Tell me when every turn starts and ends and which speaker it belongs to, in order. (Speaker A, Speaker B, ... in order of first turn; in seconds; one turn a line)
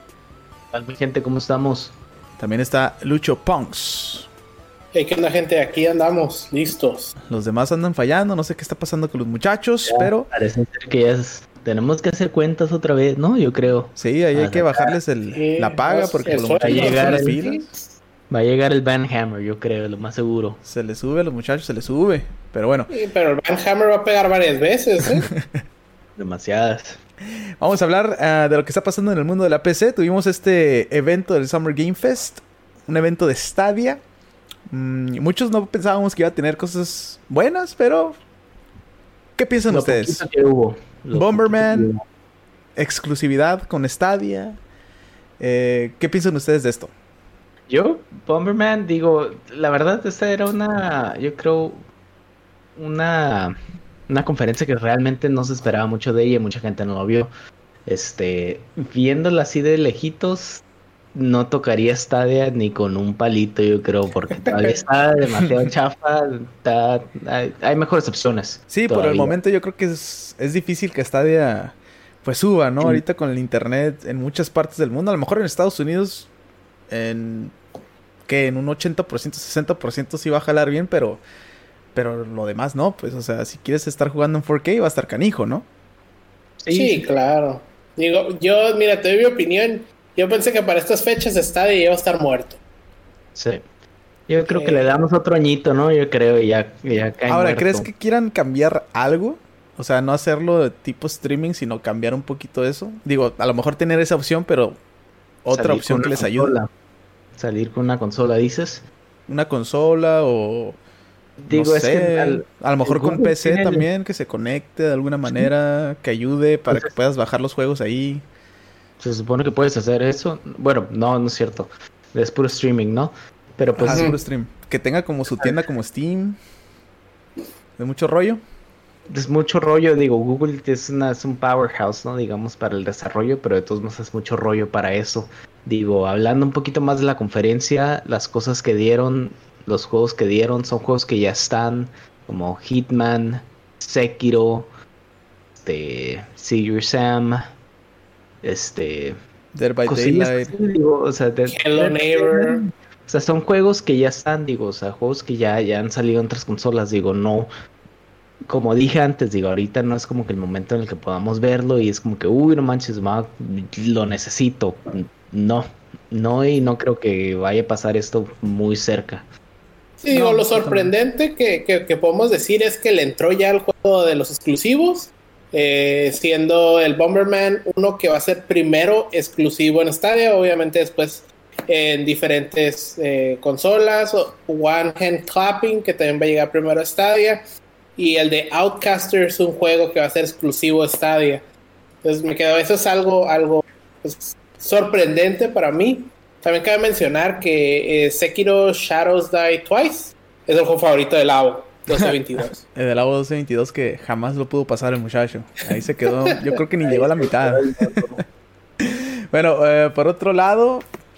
Speaker A: 0.7-1.9
Speaker B: 2.4-4.3
Speaker C: 4.9-7.1
Speaker B: 7.2-10.3
Speaker A: 9.8-15.0
Speaker B: 14.0-17.7
Speaker C: 15.3-17.7
Speaker A: 16.6-17.4
Speaker A: 18.3-20.6
Speaker B: 20.6-22.9
Speaker C: 22.9-25.3
Speaker B: 25.3-25.6
Speaker A: 26.2-27.0
Speaker B: 27.6-34.0
Speaker B: 34.7-38.2
Speaker B: 39.4-40.2
Speaker A: 39.7-42.0
Speaker B: 41.1-41.9
Speaker B: 42.8-44.6
Speaker B: 45.4-46.9
Speaker A: 47.7-51.8
Speaker A: 52.8-53.5
Speaker A: 54.1-57.3
Speaker A: 57.9-60.6
Speaker A: 61.1-69.4
Speaker B: 68.7-76.3
Speaker B: 76.9-77.5
Speaker B: 78.2-81.2
Speaker B: 81.9-85.7
Speaker A: 86.6-87.1
Speaker C: 86.7-92.6
Speaker A: 93.3-93.6
Speaker A: 94.3-97.9
Speaker C: 94.5-95.0
Speaker B: 97.3-104.8
Speaker B: 105.4-106.5
Speaker A: 105.5-106.7
Speaker A: 107.4-108.8
Speaker B: 109.3-110.8
Speaker A: 111.4-113.9
Speaker B: 111.5-118.2
Speaker A: 115.2-115.5
Speaker A: 116.7-116.9
Speaker A: 119.0-124.1
Speaker B: 123.8-126.4
Speaker C: 123.9-124.2
Speaker A: 125.3-125.6
Speaker B: 127.8-128.4
Speaker A: 129.1-144.7
Speaker A: 145.6-147.5
Speaker A: 148.4-149.2
Speaker B: 149.5-150.5
Speaker A: 149.8-157.5
Speaker C: 151.5-152.6
Speaker A: 158.5-169.3
Speaker C: 170.0-187.4
Speaker B: 170.1-170.9
Speaker C: 187.9-191.4
Speaker C: 192.0-202.6
Speaker B: 201.9-208.0
Speaker A: 206.8-208.2
Speaker B: 208.8-210.8